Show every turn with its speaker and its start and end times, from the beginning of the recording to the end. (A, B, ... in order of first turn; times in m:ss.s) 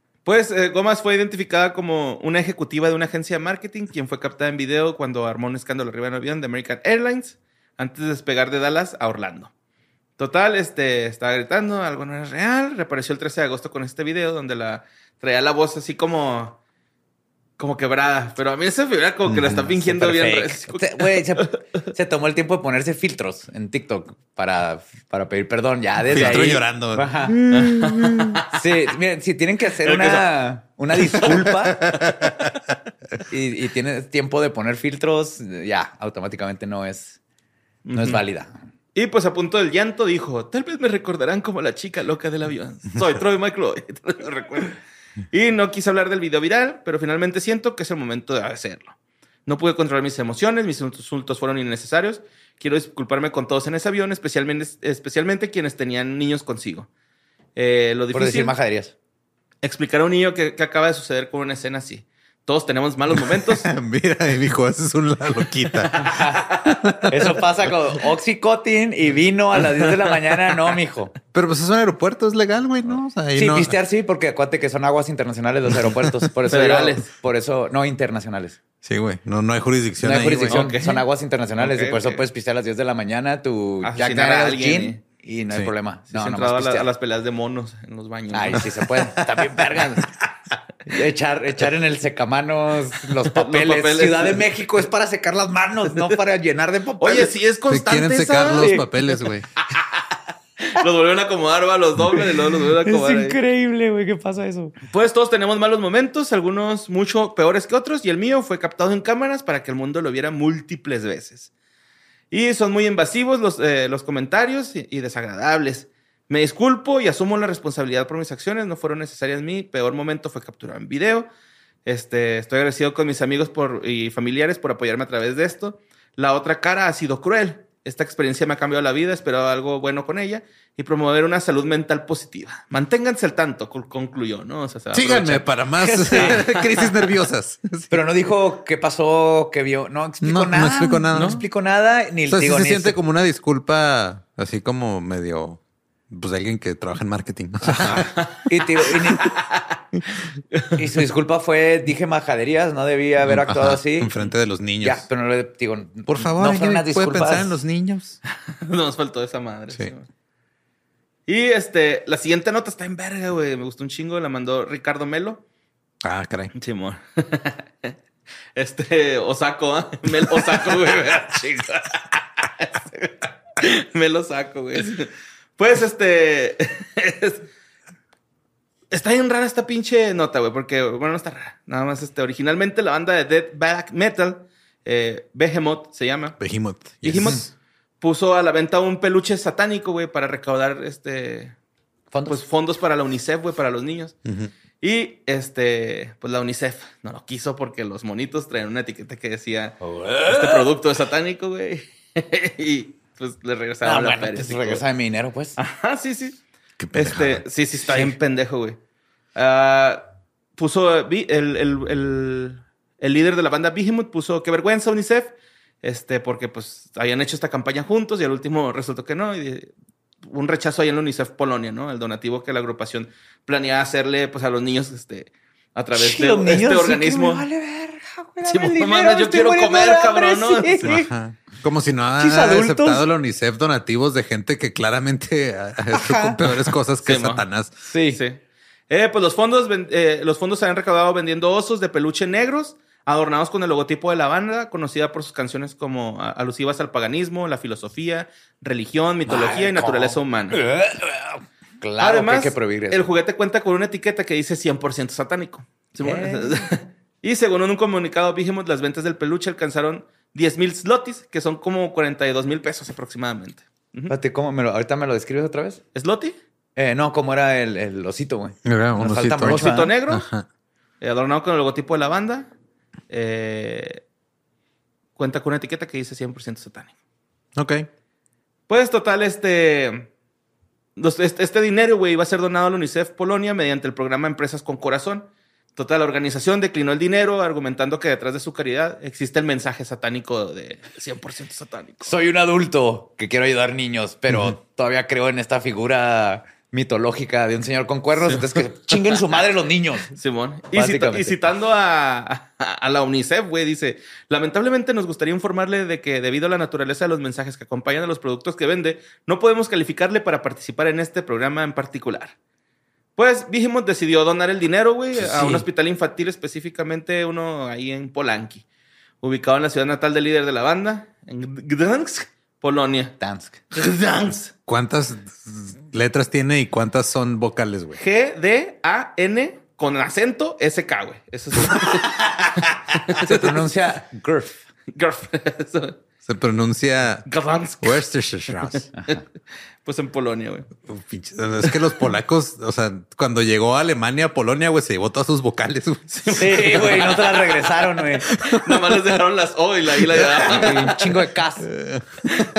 0:00.2-0:09.5 A
0:10.2-0:16.6 A
0:17.6-0:21.6 A
0:19.3-0:19.6 B
0:19.8-0:32.0 C
0:26.0-0:27.1 B
0:27.5-0:28.6 A
0:29.8-0:30.4 A
0:31.0-0:32.4 A
0:33.3-0:37.2 C
0:37.8-0:38.2 A
0:37.9-0:38.6 C
0:39.0-0:44.8 A
0:45.3-0:49.0 A
0:49.5-0:56.9 A
0:57.6-0:58.6 A
0:58.1-0:58.9 C
0:59.6-1:03.7 A
1:03.4-1:06.1 B
1:05.7-1:07.1 A
1:06.0-1:06.5 C
1:07.1-1:11.1 C
1:09.6-1:10.8 A
1:11.3-1:13.7 B
1:12.9-1:18.6 C
1:16.5-1:17.1 A
1:18.8-1:20.6 B
1:20.0-1:26.9 C
1:20.4-1:21.0 A
1:21.6-1:22.2 A
1:23.8-1:25.0 A
1:26.1-1:28.7 A
1:28.3-1:30.1 C
1:30.9-1:37.4 C
1:33.2-1:34.5 A
1:37.0-1:38.8 A
1:37.7-1:39.5 B
1:38.5-1:39.3 C
1:40.7-1:43.4 A
1:42.8-1:44.7 C
1:44.9-1:51.5 A
1:52.3-2:01.3 A
2:01.8-2:17.1 A
2:14.9-2:17.9 B
2:16.1-2:16.4 C
2:17.9-2:23.0 C
2:20.2-2:21.4 B
2:21.1-2:21.4 A
2:22.3-2:28.1 B
2:27.8-2:28.4 A
2:27.9-2:29.4 C
2:29.1-2:29.7 A
2:30.8-2:34.2 C
2:33.2-2:35.0 B
2:34.8-2:37.6 C
2:36.1-2:38.2 B
2:38.5-2:40.1 A
2:41.3-2:45.4 A
2:46.0-2:46.5 B
2:46.6-2:47.9 A
2:48.6-2:57.5 A
2:58.9-3:06.4 A
3:06.4-3:07.5 B
3:07.0-3:07.5 A
3:08.0-3:11.6 A
3:12.1-3:12.4 C
3:12.3-3:14.2 A
3:14.8-3:24.8 A
3:19.8-3:20.7 C
3:23.8-3:25.6 C
3:25.6-3:26.4 A
3:26.8-3:27.4 B
3:27.0-3:28.8 A
3:27.9-3:28.2 C
3:29.4-3:47.5 A
3:45.9-3:51.1 C
3:48.4-3:51.0 A
3:50.8-3:57.7 B
3:52.2-3:53.0 C
3:55.9-3:56.4 C
3:57.0-3:57.4 A
3:57.8-3:58.2 C
3:58.1-4:10.6 A
4:09.3-4:13.1 C
4:12.0-4:24.2 A
4:16.0-4:16.7 C
4:24.1-4:25.8 C
4:25.9-4:26.4 A
4:26.8-4:29.9 C
4:28.7-4:30.5 B
4:29.4-4:30.2 A
4:31.0-4:32.5 A
4:33.1-4:34.0 A
4:35.2-4:36.9 A
4:37.6-4:37.9 B
4:38.7-4:40.1 A
4:41.0-4:52.2 A
4:52.0-5:00.1 C
4:58.2-4:59.1 A
5:00.1-5:12.3 A
5:00.7-5:01.5 C
5:13.2-5:18.6 A
5:15.2-5:15.7 C
5:19.2-5:23.2 A
5:23.2-5:23.6 C
5:23.7-5:24.5 A
5:24.7-5:28.0 B
5:28.0-5:33.6 A
5:33.2-5:34.6 C
5:34.9-5:36.0 A
5:36.3-5:37.3 B
5:37.3-5:39.2 A
5:37.8-5:38.8 B
5:39.8-5:40.7 A
5:40.9-5:46.0 B
5:46.1-5:47.7 A
5:46.4-5:48.3 C
5:48.3-5:49.0 B
5:48.5-5:51.1 A
5:50.1-5:51.7 C
5:51.7-5:52.0 B